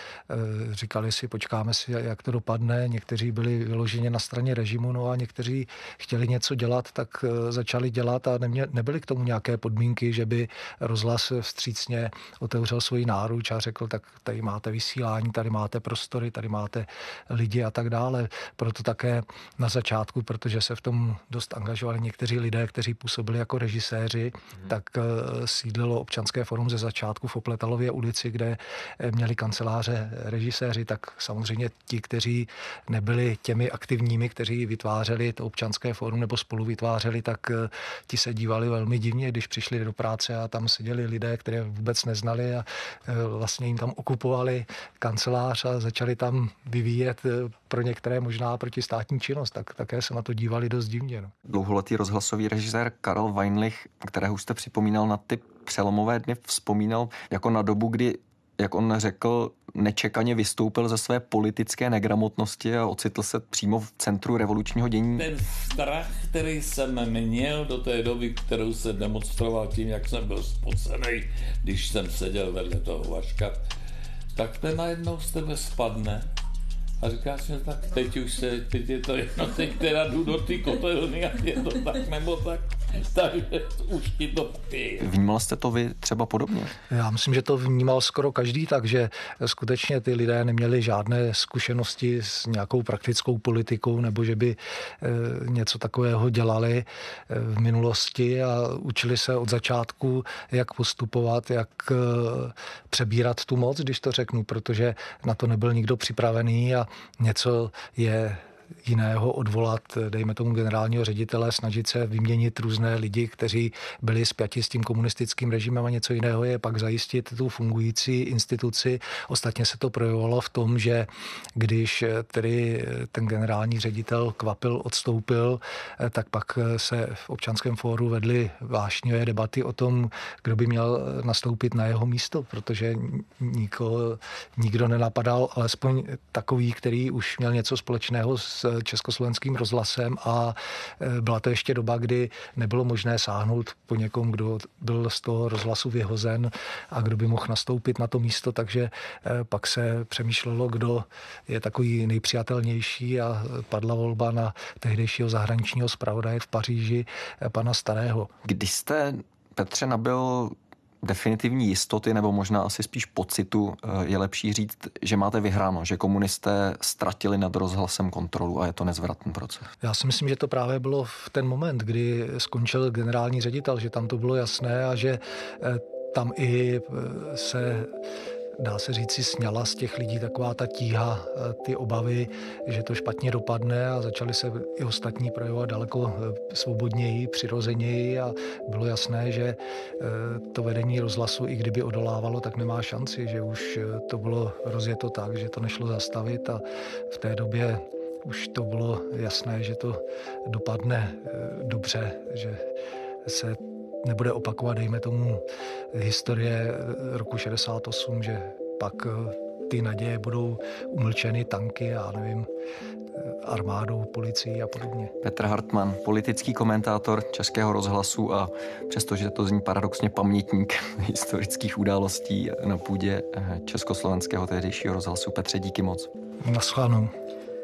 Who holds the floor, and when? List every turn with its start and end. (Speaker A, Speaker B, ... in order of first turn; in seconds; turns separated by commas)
Speaker A: 0.3-51.3, Speaker B: 51.5-65.3, Speaker C: 65.1-73.6, Speaker C: 74.3-76.3, Speaker C: 77.0-85.1, Speaker B: 85.0-86.7, Speaker A: 86.9-158.3, Speaker B: 158.4-169.7, Speaker A: 169.8-177.9, Speaker A: 178.6-202.6, Speaker A: 203.3-205.4, Speaker A: 205.9-212.5, Speaker A: 213.4-215.1, Speaker B: 215.2-226.1, Speaker A: 226.5-227.1